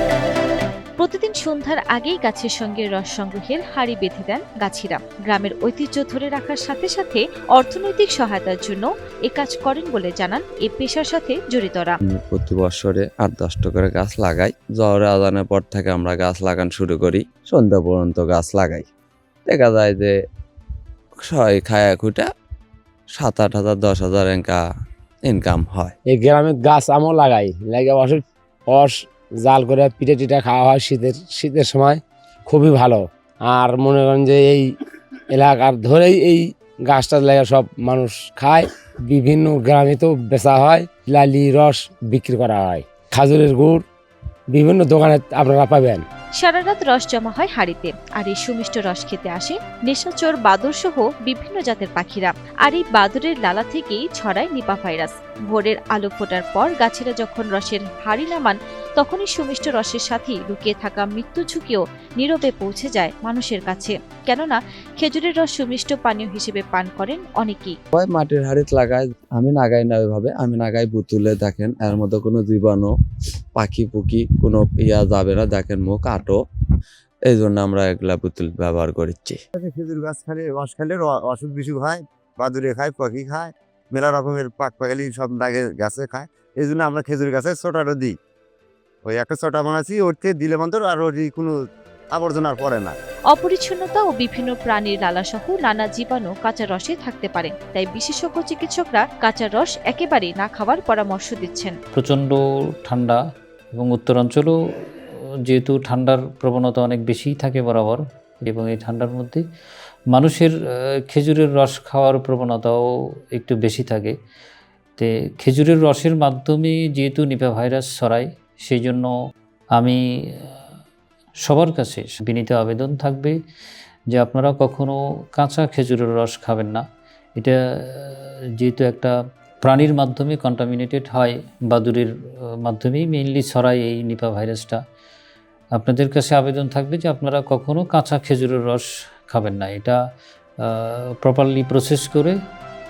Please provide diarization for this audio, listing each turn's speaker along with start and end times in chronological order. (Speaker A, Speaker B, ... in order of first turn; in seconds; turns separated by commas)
Speaker A: 1.0-12.0, Speaker B: 12.1-18.9, Speaker B: 19.5-20.1, Speaker B: 21.2-22.3, Speaker B: 23.1-24.6, Speaker B: 25.2-25.9, Speaker C: 26.1-34.7, Speaker C: 35.3-43.9, Speaker C: 44.5-46.0, Speaker A: 46.4-67.8, Speaker B: 68.0-72.9, Speaker B: 73.6-76.4, Speaker B: 77.3-79.4, Speaker D: 79.6-88.2, Speaker D: 89.0-91.6, Speaker D: 92.1-93.0, Speaker A: 93.3-101.8, Speaker E: 102.0-103.2, Speaker E: 103.7-104.6, Speaker E: 105.5-109.4, Speaker E: 110.1-110.5, Speaker E: 111.1-112.8, Speaker E: 113.3-114.2, Speaker E: 115.0-119.1, Speaker E: 119.7-120.5, Speaker E: 121.4-123.4, Speaker E: 124.1-126.8, Speaker E: 127.4-134.8, Speaker E: 135.8-140.0, Speaker E: 140.6-142.4